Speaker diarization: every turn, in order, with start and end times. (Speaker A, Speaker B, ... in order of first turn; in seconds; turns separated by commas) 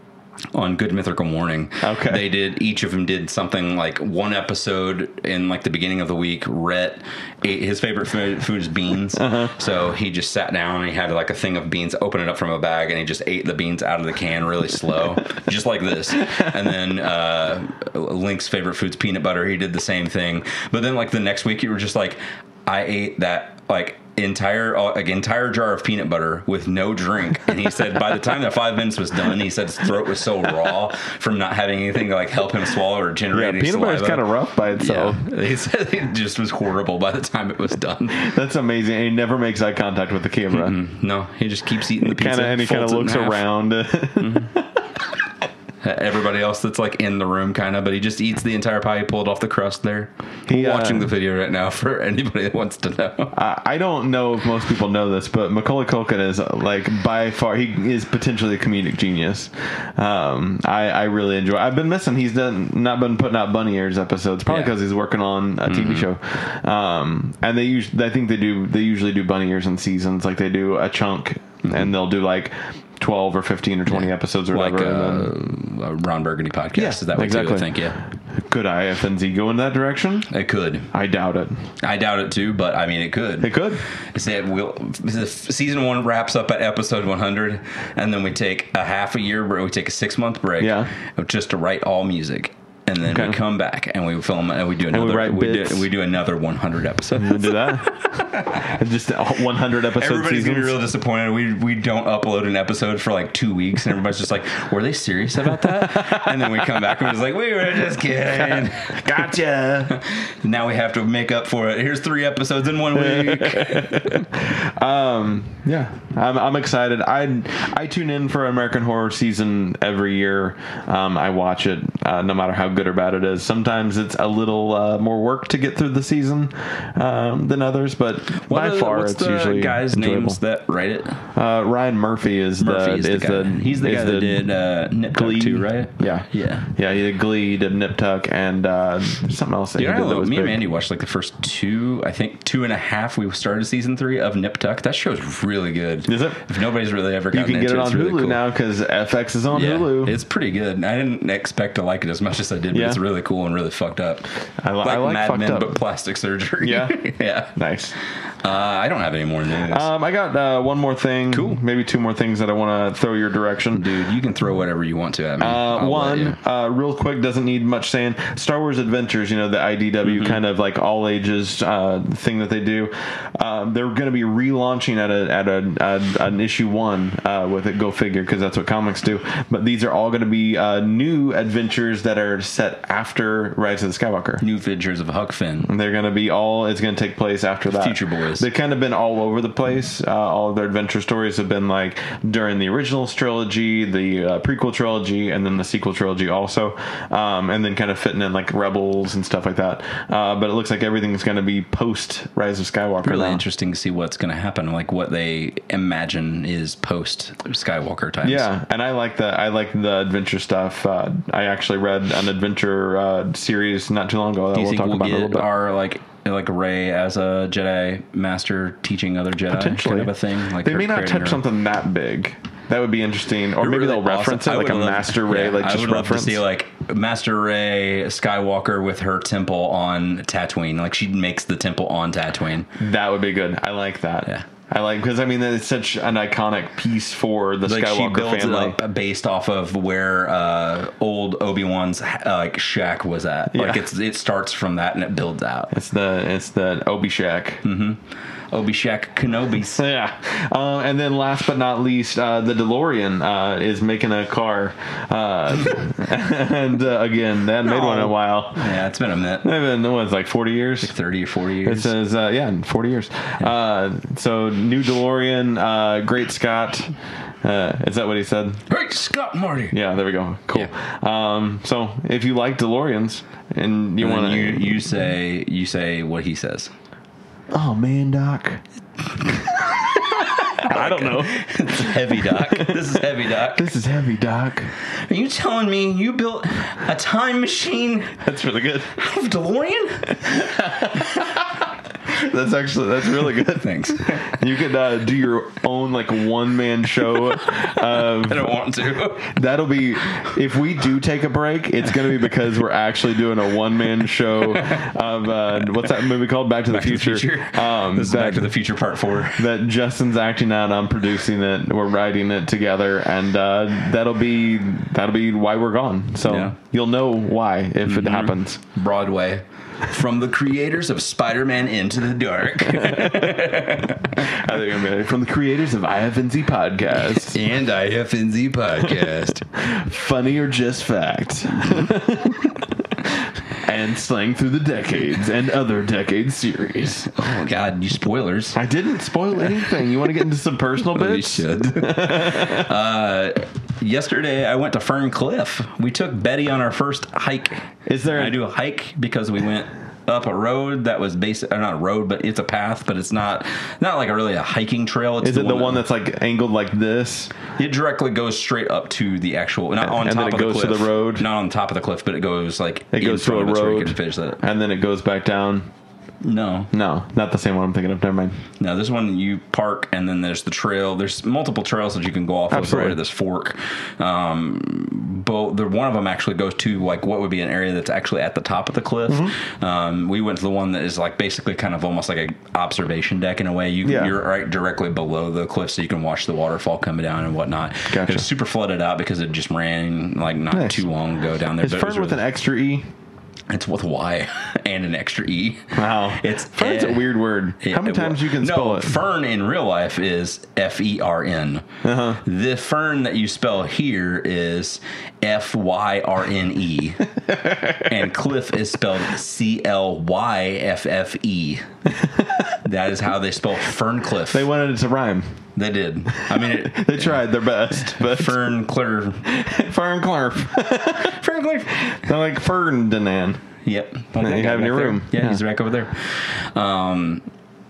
Speaker A: 0.5-38.3, Speaker B: 1.8-2.2, Speaker B: 9.2-9.5, Speaker B: 33.3-35.2, Speaker B: 38.1-40.8, Speaker A: 40.5-43.4, Speaker B: 42.0-44.8, Speaker A: 44.2-44.5, Speaker A: 45.8-53.3, Speaker B: 50.5-51.1, Speaker B: 53.3-75.3, Speaker A: 64.5-64.7, Speaker A: 65.6-66.1, Speaker A: 71.6-71.9, Speaker A: 73.9-78.0, Speaker B: 76.7-80.3, Speaker A: 80.3-80.9, Speaker B: 80.9-81.7, Speaker A: 81.8-98.7, Speaker B: 83.4-83.8, Speaker B: 90.6-90.9, Speaker B: 93.0-93.4, Speaker B: 94.9-95.9, Speaker B: 97.1-100.8, Speaker A: 100.0-109.3, Speaker B: 105.6-106.7, Speaker B: 108.4-110.0, Speaker A: 109.9-114.2, Speaker B: 112.9-130.4, Speaker A: 128.4-131.2, Speaker B: 131.3-134.5, Speaker A: 132.6-136.7, Speaker B: 135.1-140.6, Speaker A: 139.8-148.4, Speaker B: 146.1-146.4, Speaker B: 147.3-150.1, Speaker A: 149.5-154.3, Speaker B: 152.7-153.0, Speaker B: 154.6-155.8, Speaker A: 154.8-157.5, Speaker B: 156.6-157.9, Speaker A: 158.4-159.9, Speaker B: 159.7-163.9, Speaker A: 161.3-161.6, Speaker A: 163.8-166.4, Speaker B: 165.4-184.4, Speaker A: 170.0-170.4, Speaker A: 184.4-185.7, Speaker B: 185.7-203.4, Speaker A: 187.7-188.5, Speaker A: 203.0-208.5, Speaker B: 208.2-215.5, Speaker A: 214.5-221.4, Speaker B: 219.5-226.4, Speaker A: 223.6-232.7, Speaker B: 232.8-238.8, Speaker A: 237.6-245.7, Speaker B: 243.5-243.8, Speaker B: 245.7-247.6, Speaker A: 247.6-248.0, Speaker A: 248.5-249.8, Speaker B: 249.7-258.7, Speaker A: 257.6-259.5, Speaker B: 259.4-260.9, Speaker A: 260.8-261.9, Speaker B: 261.6-268.6, Speaker A: 268.7-269.8, Speaker B: 269.7-274.8, Speaker A: 274.0-276.7, Speaker B: 277.5-278.6, Speaker B: 279.2-284.7, Speaker A: 280.5-283.7, Speaker A: 284.9-288.2, Speaker B: 288.2-288.9, Speaker A: 288.9-291.1, Speaker B: 290.2-298.5, Speaker A: 293.4-294.4, Speaker A: 297.5-299.4, Speaker B: 299.2-308.5, Speaker A: 304.4-304.9, Speaker A: 306.7-309.4, Speaker B: 309.3-318.6, Speaker A: 316.2-316.6, Speaker A: 317.8-324.3, Speaker B: 322.6-323.6, Speaker B: 324.1-327.4, Speaker A: 327.1-329.5, Speaker B: 329.5-337.1, Speaker A: 337.1-338.6, Speaker B: 338.5-342.7, Speaker A: 340.9-355.8, Speaker B: 347.9-348.4, Speaker B: 355.2-357.3, Speaker A: 357.6-364.4, Speaker B: 359.8-361.2, Speaker B: 362.9-365.7, Speaker A: 366.2-366.7, Speaker B: 366.7-368.4, Speaker A: 368.6-392.2, Speaker B: 372.5-373.0, Speaker B: 379.1-379.4, Speaker B: 383.8-384.1, Speaker B: 387.9-388.2, Speaker B: 390.5-390.9, Speaker B: 391.6-392.9, Speaker A: 393.5-401.6, Speaker B: 395.7-399.0, Speaker B: 401.8-402.2, Speaker A: 402.2-407.0, Speaker B: 407.3-407.9, Speaker A: 407.8-411.7, Speaker B: 411.9-412.6, Speaker A: 412.6-414.5, Speaker B: 414.3-415.3, Speaker A: 415.6-417.2, Speaker B: 416.2-418.4, Speaker A: 417.8-419.2, Speaker B: 419.2-421.2, Speaker A: 421.0-422.1, Speaker B: 421.8-423.4, Speaker A: 423.6-427.2, Speaker B: 424.2-425.4